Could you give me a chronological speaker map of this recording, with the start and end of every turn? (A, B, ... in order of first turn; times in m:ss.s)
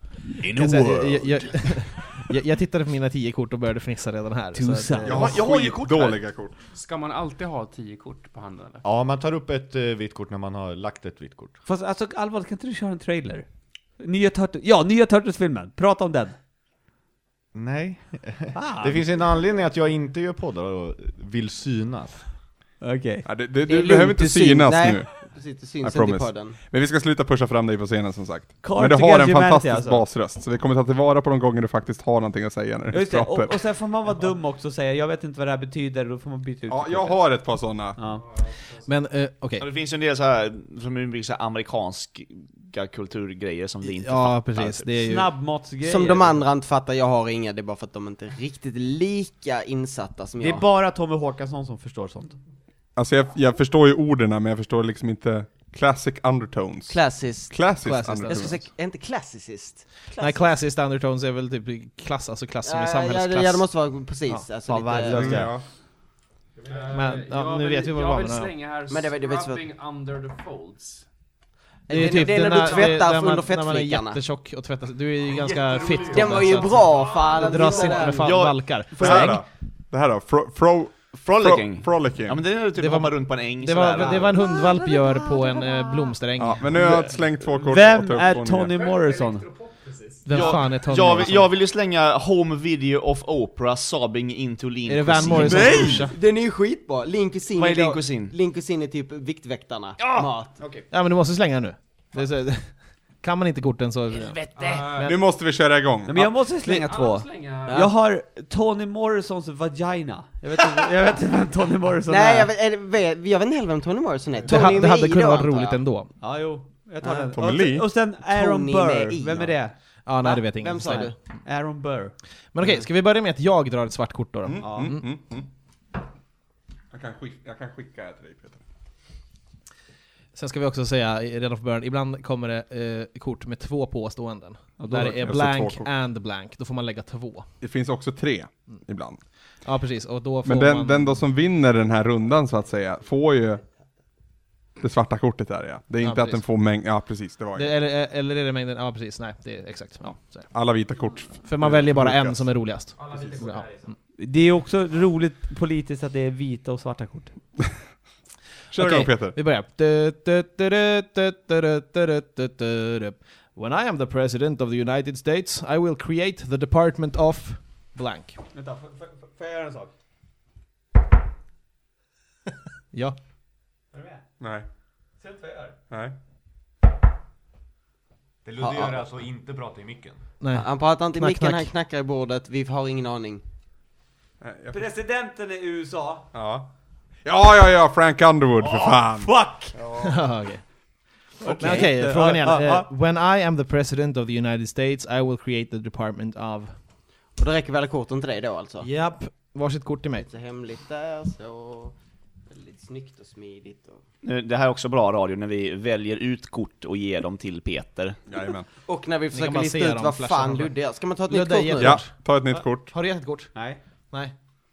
0:00.4-0:01.1 A
0:00.5-0:05.4 B
0:00.5-0:01.8 C
0:04.5-0:05.2 D
0:05.0-0:06.5 E
0:05.1-0:06.2 C
0:06.7-0:08.8 F
0:08.8-0:11.6 A
0:11.6-0:13.4 D
0:14.0-0:16.3 D
0:17.5-0:22.2 A
0:18.5-0:19.0 D
0:22.8-0:23.3 D
0:23.2-0:33.6 E
0:23.7-0:26.6 G
0:28.6-0:30.0 D
0:32.9-0:37.2 D
0:36.7-0:38.0 E
0:38.0-0:38.3 D
0:38.8-0:39.6 B
0:39.6-0:45.1 C
0:43.8-0:45.3 B
0:45.0-0:46.4 D
0:45.8-0:50.7 G
0:50.4-0:52.4 D
0:53.0-0:58.6 E
0:56.9-1:00.0 G
0:57.8-0:58.3 B
1:00.2-1:03.7 B
1:02.6-1:05.5 G
1:04.3-1:05.5 B
1:04.7-1:05.5 D
1:05.0-1:05.6 E
1:06.6-1:07.0 A
1:06.6-1:11.0 F
1:06.9-1:08.5 B
1:08.9-1:09.6 G
1:11.9-1:14.2 G
1:11.9-1:19.4 B
1:12.5-1:13.0 F
1:15.3-1:17.2 A
1:16.1-1:18.3 G
1:17.5-1:19.3 C
1:19.0-1:22.4 E
1:19.1-1:19.3 D
1:21.1-1:24.5 C
1:22.8-1:27.1 B
1:26.4-1:28.7 E
1:27.5-1:29.5 D
1:28.6-1:30.3 A
1:30.2-1:31.5 B
1:30.3-1:36.0 C
1:34.8-1:36.1 B
1:35.4-1:35.9 D
1:35.4-1:40.6 G
1:37.5-1:38.3 C
1:40.9-1:45.1 B
1:44.2-1:44.9 C
1:44.6-1:45.1 F
1:45.0-1:46.4 E
1:46.0-1:52.5 D
1:46.6-1:47.8 F
1:47.7-1:47.9 G
1:52.1-1:55.8 G
1:54.5-1:56.1 B
1:56.2-1:59.8 D
1:57.0-1:57.3 G
1:57.4-1:57.9 E
1:58.3-1:59.6 G
2:00.0-2:01.1 B
2:00.2-2:01.1 G
2:00.8-2:02.1 D
2:02.5-2:05.0 B
2:04.4-2:05.5 E
2:04.6-2:05.0 D
2:06.9-2:08.6 E
2:10.3-2:17.5 B
2:14.8-2:15.3 D
2:14.9-2:15.9 E
2:17.6-2:19.2 E
2:19.6-2:21.2 B
2:20.4-2:23.6 E
2:24.8-2:27.8 E
2:26.0-2:26.4 B
2:27.5-2:30.5 B
2:30.5-2:32.6 E
2:31.4-2:33.7 B
2:33.0-2:33.9 F
2:34.2-2:37.3 D
2:38.7-2:39.4 E
2:38.8-2:48.4 B
2:48.5-2:50.0 D
2:53.9-2:54.2 D
2:54.4-2:54.6 E
2:55.2-2:55.7 D
2:55.9-2:56.2 E
2:58.4-3:00.2 A
3:00.4-3:01.7 B
3:00.5-3:03.4 G
3:04.4-3:04.8 E
3:04.7-3:06.2 D
3:06.3-3:06.7 E
3:07.2-3:10.2 E
3:08.7-3:09.8 D
3:10.0-3:10.6 B
3:11.4-3:12.9 D
3:11.4-3:16.7 B
3:17.4-3:18.9 G
3:18.8-3:20.3 B
3:20.2-3:22.0 G
3:22.5-3:24.0 G
3:24.2-3:28.2 C
3:28.3-3:28.7 E
3:28.8-3:32.0 G
3:29.3-3:30.7 B
3:31.3-3:33.5 B
3:31.8-3:32.9 E
3:33.5-3:33.8 D